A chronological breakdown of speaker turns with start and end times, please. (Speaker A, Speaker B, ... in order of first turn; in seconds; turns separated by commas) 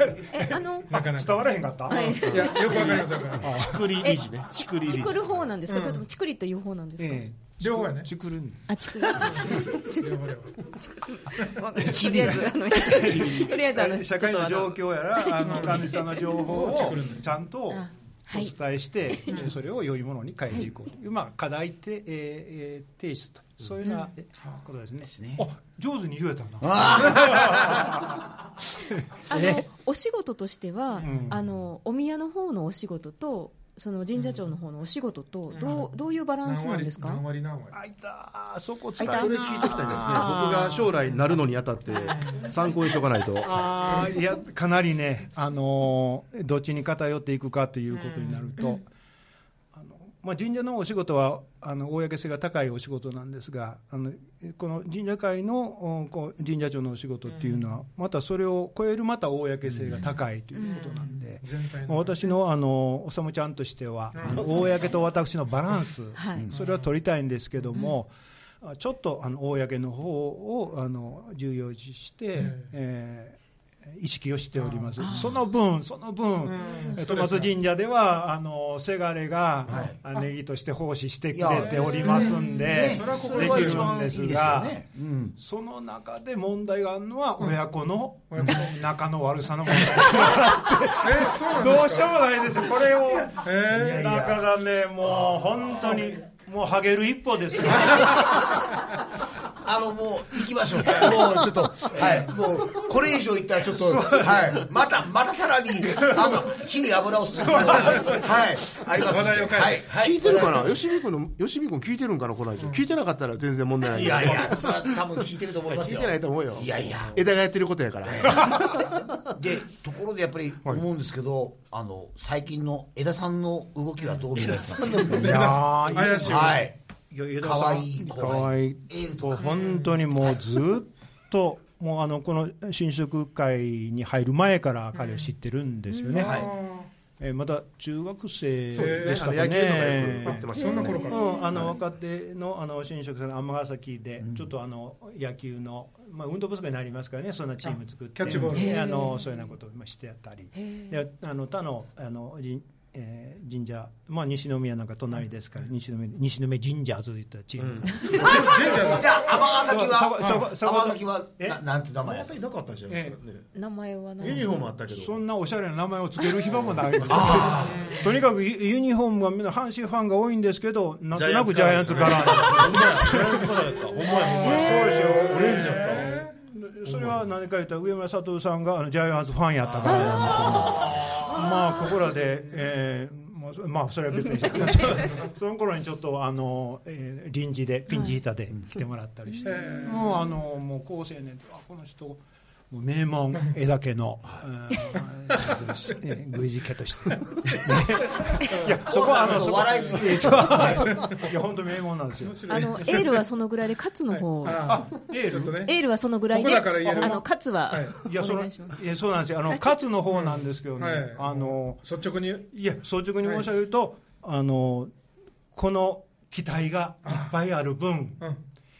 Speaker A: 0.2-4.2, Speaker B: 0.3-1.0, Speaker C: 0.9-3.6, Speaker B: 1.9-3.0, Speaker D: 2.3-5.4, Speaker B: 3.9-7.3, Speaker C: 5.7-6.0, Speaker A: 7.0-9.6, Speaker C: 7.6-8.1, Speaker B: 8.7-16.4, Speaker C: 9.2-10.6, Speaker A: 11.8-28.3, Speaker E: 11.8-13.4, Speaker C: 15.4-15.8, Speaker C: 16.4-17.3, Speaker B: 17.7-18.5, Speaker B: 23.8-24.1, Speaker E: 25.1-25.4, Speaker E: 26.6-28.0, Speaker A: 28.9-29.6, Speaker B: 29.3-37.2, Speaker A: 31.0-31.4, Speaker C: 35.5-35.9, Speaker C: 36.4-37.8, Speaker A: 37.7-40.9, Speaker B: 39.0-40.8, Speaker D: 39.0-43.7, Speaker C: 41.9-42.5, Speaker A: 43.4-48.8, Speaker C: 47.9-48.6, Speaker A: 49.7-84.8, Speaker E: 59.7-60.0, Speaker B: 60.5-60.8, Speaker C: 60.6-62.3, Speaker C: 64.1-64.5, Speaker D: 64.4-64.7, Speaker B: 66.2-66.5, Speaker C: 66.5-66.9, Speaker C: 72.4-72.7, Speaker C: 74.6-75.1, Speaker B: 75.0-75.3, Speaker C: 76.4-77.5, Speaker B: 76.5-77.0, Speaker E: 79.7-80.0, Speaker C: 79.8-80.3, Speaker E: 81.3-85.3, Speaker C: 81.5-84.0, Speaker B: 82.0-82.8, Speaker A: 85.3-98.5, Speaker C: 88.3-88.7, Speaker C: 91.0-92.1, Speaker C: 93.4-94.1, Speaker E: 93.6-94.4, Speaker E: 95.2-95.9, Speaker E: 97.9-98.8, Speaker E: 99.5-110.8, Speaker A: 101.9-102.2, Speaker A: 103.7-104.6, Speaker A: 105.9-106.5, Speaker A: 107.6-108.4, Speaker C: 107.7-108.2, Speaker C: 109.0-109.9, Speaker D: 109.9-115.1, Speaker C: 112.6-112.8, Speaker E: 113.9-117.3, Speaker D: 115.6-119.3, Speaker E: 118.0-126.8, Speaker D: 124.6-125.1, Speaker A: 125.0-136.5, Speaker C: 125.3-126.6, Speaker E: 127.4-129.6, Speaker C: 129.5-130.0, Speaker C: 135.0-135.3, Speaker B: 135.9-136.3, Speaker C: 136.1-136.9, Speaker E: 136.2-136.5, Speaker A: 137.2-161.6, Speaker D: 138.7-141.7, Speaker C: 138.8-139.3, Speaker C: 140.2-141.6, Speaker B: 140.6-141.8, Speaker C: 148.2-148.9, Speaker B: 148.5-149.2, Speaker B: 150.6-150.9, Speaker D: 157.6-158.1, Speaker C: 158.1-159.4, Speaker E: 158.1-162.4, Speaker D: 162.0-163.5, Speaker A: 162.9-163.2, Speaker B: 163.5-164.5, Speaker D: 164.2-165.2, Speaker A: 164.9-173.5, Speaker D: 166.4-167.5, Speaker E: 167.1-168.0, Speaker C: 167.4-168.1, Speaker D: 171.1-176.2, Speaker C: 174.0-174.8, Speaker B: 174.3-175.6, Speaker A: 174.4-203.0, Speaker C: 175.3-176.3, Speaker D: 176.8-177.2, Speaker D: 179.6-181.3, Speaker B: 179.9-180.5, Speaker B: 181.4-181.7, Speaker B: 189.4-189.9, Speaker C: 189.4-190.1, Speaker E: 198.6-201.1, Speaker C: 200.8-201.2, Speaker C: 202.2-203.2, Speaker B: 202.5-208.8, Speaker C: 204.1-205.8, Speaker A: 204.5-205.6, Speaker C: 206.3-208.0, Speaker A: 206.9-207.2, Speaker A: 207.9-211.8, Speaker C: 210.1-212.5, Speaker A: 212.5-214.9, Speaker C: 213.2-213.5, Speaker A: 215.5-218.2, Speaker C: 217.1-217.3